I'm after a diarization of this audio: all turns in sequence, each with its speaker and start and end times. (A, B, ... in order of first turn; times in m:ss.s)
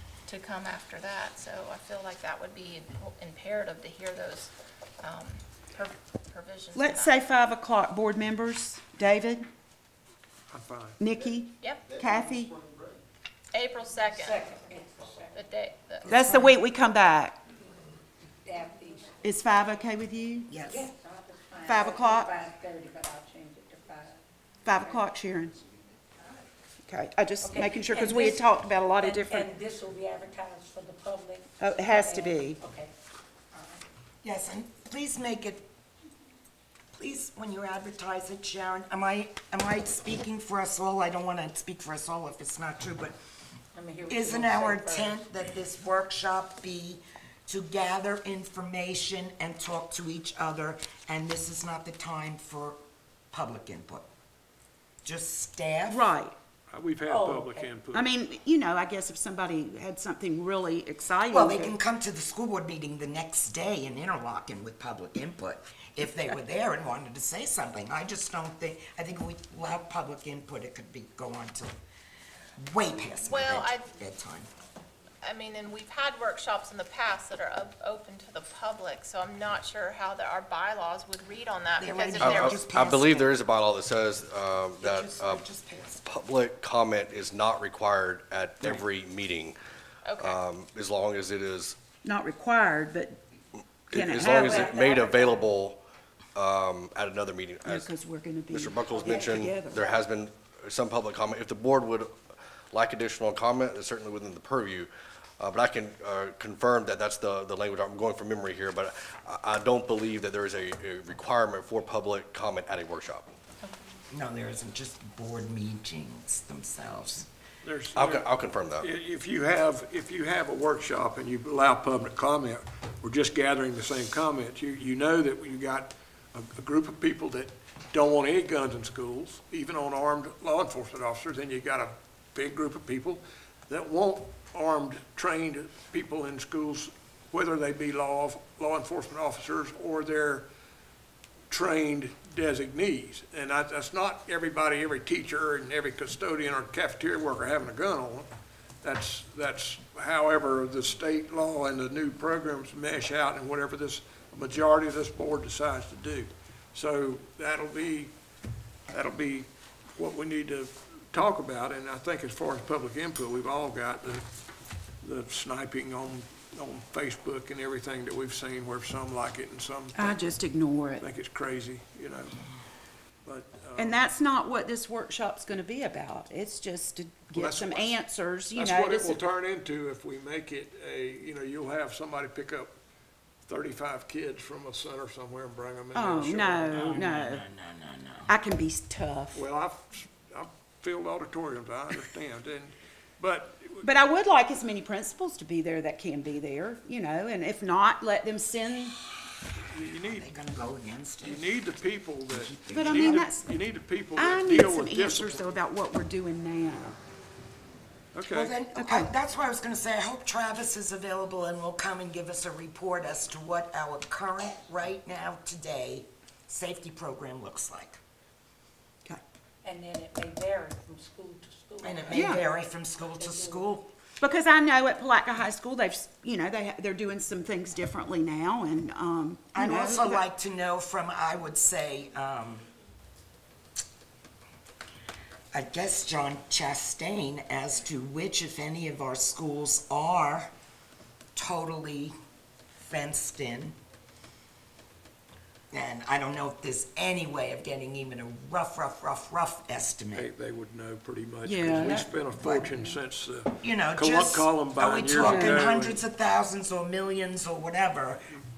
0:00.3-0:07.2 A
0:06.8-0:09.4 B
0:10.5-0:11.0 C
0:11.0-0:12.6 B
0:11.6-0:11.9 A
0:13.5-0:14.5 A
0:14.0-0:15.4 D
0:15.3-0:16.5 A
0:16.1-0:17.4 B
0:18.4-0:19.2 D
0:19.2-0:20.6 B
0:20.5-0:20.8 E
0:20.6-0:24.2 D
0:21.6-0:22.3 B
0:24.6-0:25.6 B
0:24.8-0:25.1 D
0:26.9-0:29.5 B
0:27.4-0:32.9 D
0:31.6-0:32.6 B
0:33.5-0:33.8 D
0:34.2-0:35.7 E
0:36.9-0:43.2 E
0:43.7-0:45.2 D
0:44.1-0:52.8 E
0:53.3-0:54.1 E
0:55.0-0:56.1 E
0:55.9-0:56.4 B
0:56.7-0:58.1 C
0:57.1-0:57.7 D
0:57.9-1:01.8 B
1:01.3-1:11.7 E
1:12.6-1:14.5 E
1:13.2-1:13.8 A
1:15.2-1:22.6 A
1:21.8-1:23.3 E
1:22.2-1:25.4 F
1:24.8-1:26.0 E
1:26.0-1:29.6 F
1:30.0-1:30.4 A
1:30.2-1:31.8 F
1:32.0-1:33.2 B
1:33.9-1:35.8 F
1:33.9-1:34.7 B
1:34.3-1:35.4 D
1:36.4-1:37.9 F
1:37.6-1:40.0 B
1:38.5-1:42.1 F
1:38.9-1:39.4 D
1:42.7-1:44.9 F
1:45.4-1:53.3 F
1:54.1-1:57.3 E
1:57.6-2:20.5 C
1:57.9-1:58.9 F
2:21.5-2:28.3 C
2:28.8-2:38.2 C
2:38.9-2:44.2 C
2:45.0-2:50.2 C
2:50.0-2:51.1 B
2:51.0-2:52.4 C
2:53.2-2:54.0 C
2:53.8-2:59.2 B
2:57.3-2:58.0 C
2:58.6-3:02.7 C
3:03.5-3:07.1 C
3:05.9-3:07.4 B
3:06.7-3:08.3 E
3:08.3-3:09.4 B
3:09.3-3:14.0 C
3:13.8-3:19.0 B
3:19.7-3:20.3 C
3:20.1-3:21.6 E
3:21.2-3:25.6 C
3:22.3-3:23.3 E
3:22.7-3:23.6 B
3:24.2-3:27.0 B
3:28.1-3:28.6 C
3:28.3-3:38.0 E
3:28.7-3:29.1 B
3:39.6-3:42.4 D
3:41.8-3:43.9 E
3:42.1-3:42.4 B
3:43.2-3:43.7 D
3:44.2-3:50.2 B
3:49.5-3:52.6 E
3:55.5-4:00.5 E
4:01.4-4:02.1 E
4:02.8-4:03.8 E
4:05.7-4:10.3 E
4:10.1-4:16.0 C
4:11.4-4:12.9 B
4:12.4-4:12.7 E
4:13.6-4:18.3 E
4:15.2-4:15.6 B